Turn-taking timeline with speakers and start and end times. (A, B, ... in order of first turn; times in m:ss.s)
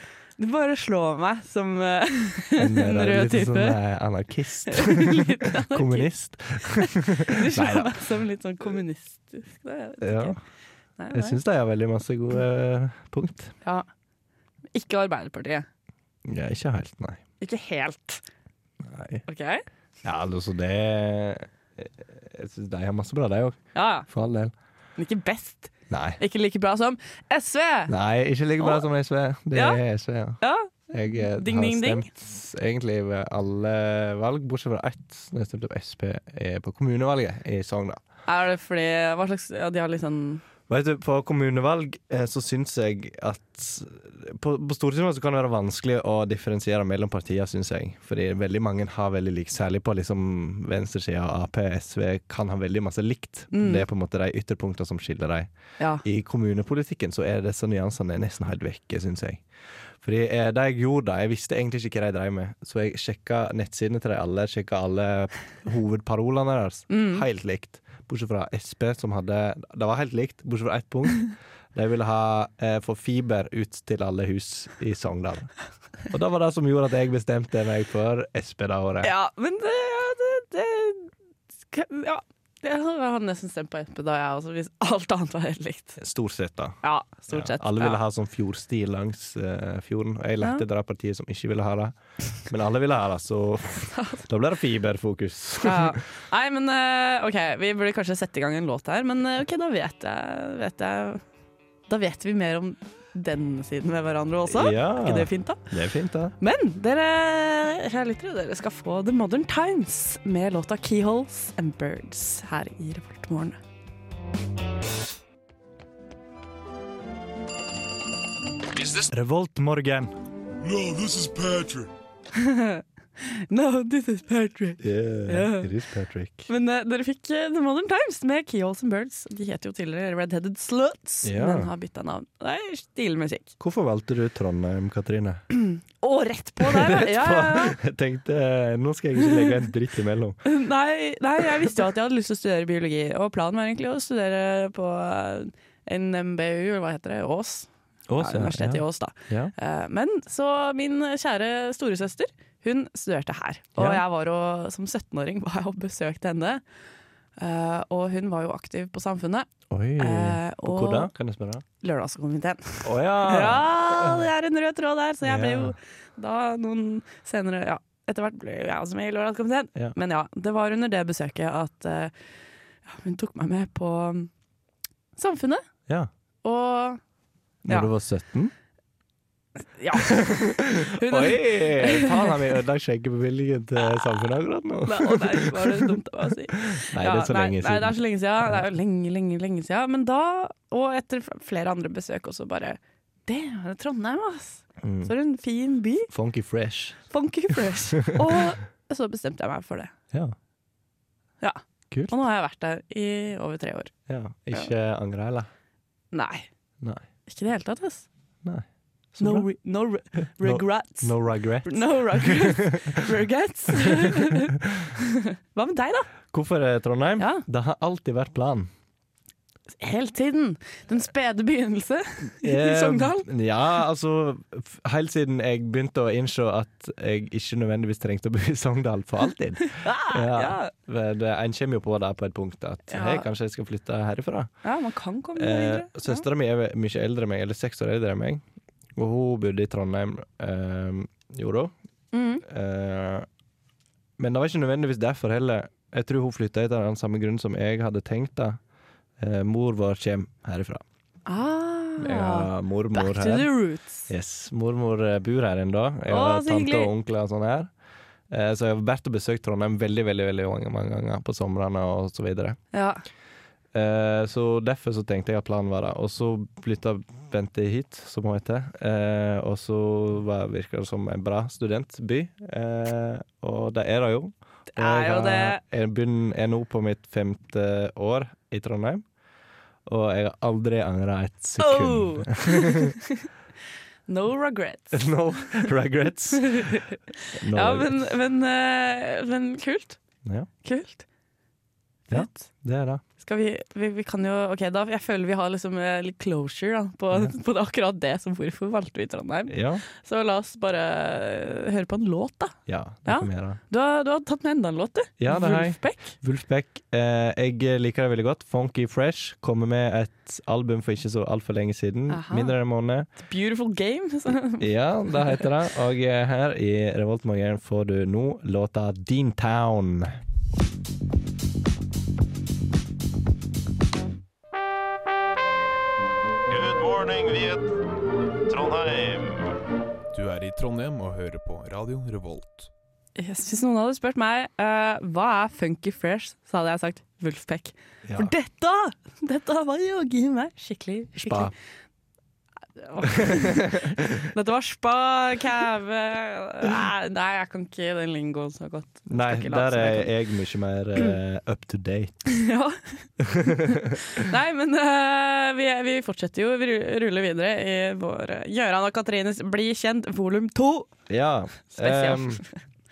0:00.4-0:03.8 A
0:02.6-0:08.1 B
0:04.7-0:06.1 A
0:06.8-0:10.4 A
0:10.0-0:10.4 B
0:11.0-0:11.4 A
0:11.1-0:13.5 B
0:14.7-0:15.7 A
0:16.2-0:17.2 B
0:17.4-0:18.2 A
0:18.8-0:19.2 B
0:19.3-0:19.6 A
0:20.0-0:24.5 B
0:23.8-0:24.1 A
0:25.0-0:27.9 A
0:25.9-0:26.2 B
0:27.9-0:38.0 B
0:29.5-0:29.8 A
0:30.4-0:32.1 A
0:38.3-0:40.4 A
0:40.7-0:55.5 B
0:53.5-0:53.9 A
0:55.8-0:56.0 A
0:56.0-0:59.4 B
1:00.0-1:15.5 B
1:06.9-1:07.2 A
1:16.1-1:19.1 B
1:19.0-1:21.1 A
1:21.7-1:26.0 A
1:26.0-1:26.8 B
1:26.8-1:28.0 A
1:27.3-1:36.0 B
1:33.9-1:34.2 A
1:35.6-1:41.2 A
1:41.9-1:45.7 A
1:44.5-1:46.4 B
1:46.4-1:53.6 A
1:58.9-2:00.1 B
2:00.6-2:01.9 C
2:02.4-2:05.7 A
2:04.8-2:06.5 B
2:06.5-2:13.5 A
2:11.2-2:11.7 B
2:13.6-2:15.4 B
2:15.6-2:17.8 A
2:16.6-2:20.4 B
2:20.4-2:36.6 A
2:28.1-2:29.5 B
2:33.8-2:34.0 B
2:37.4-2:41.1 A
2:39.7-2:41.6 B
2:41.8-2:52.1 A
2:42.8-2:44.3 B
2:45.2-2:45.8 B
2:52.9-2:54.3 A
2:55.2-2:55.6 A
2:56.4-2:57.0 A
2:57.6-2:58.5 B
2:59.8-3:00.4 A
2:59.9-3:05.9 B
3:00.9-3:02.4 A
3:04.9-3:16.1 A
3:06.6-3:08.6 B
3:14.8-3:15.1 B
3:16.1-3:17.0 B
3:17.1-3:19.9 A
3:18.0-3:18.4 B
3:21.4-3:23.9 A
3:24.1-3:25.5 B
3:26.1-3:26.5 A
3:27.3-3:28.1 A
3:28.4-3:29.5 B
3:29.2-3:36.1 A
3:30.4-3:33.1 B
3:33.7-3:34.9 B
3:36.3-3:38.7 B
3:39.8-3:43.3 A
3:42.4-3:54.5 B
3:49.7-3:50.7 A
3:52.9-3:53.3 A
3:54.6-3:56.2 A
3:55.4-3:58.4 B
3:59.0-4:01.7 B
4:02.1-4:02.4 A
4:02.4-4:03.3 B
4:04.2-4:08.6 B
4:09.2-4:10.8 B
4:11.3-4:14.1 A
4:12.0-4:13.5 B
4:14.1-4:17.7 B
4:16.1-4:16.9 A
4:18.3-4:22.6 B
4:22.7-4:23.0 A
4:23.7-4:39.0 B
4:34.7-4:35.6 A
4:39.9-4:43.0 B
4:41.6-4:43.2 A
4:44.1-4:45.1 A
4:44.9-4:46.8 B
4:46.4-4:47.0 A
4:47.4-4:48.1 B
4:47.5-4:50.0 A
4:50.2-4:50.5 B
4:50.6-4:51.0 A
4:52.1-4:52.5 A
4:52.1-4:53.0 B
4:53.2-5:06.1 A
4:59.5-4:59.8 B
5:02.7-5:03.6 B
5:05.2-5:13.1 B
5:12.1-5:12.6 A
5:13.2-5:15.5 A
5:14.6-5:20.2 B
5:26.6-5:27.6 C
5:30.1-5:32.7 C
5:33.2-5:41.5 A
5:38.0-5:38.3 B
5:41.2-5:41.5 B
5:42.8-5:50.1 A
5:43.2-5:44.2 B
5:49.1-5:52.3 B
5:52.3-6:00.9 A
5:53.2-5:54.0 B
6:01.1-6:02.4 B
6:01.7-6:02.5 A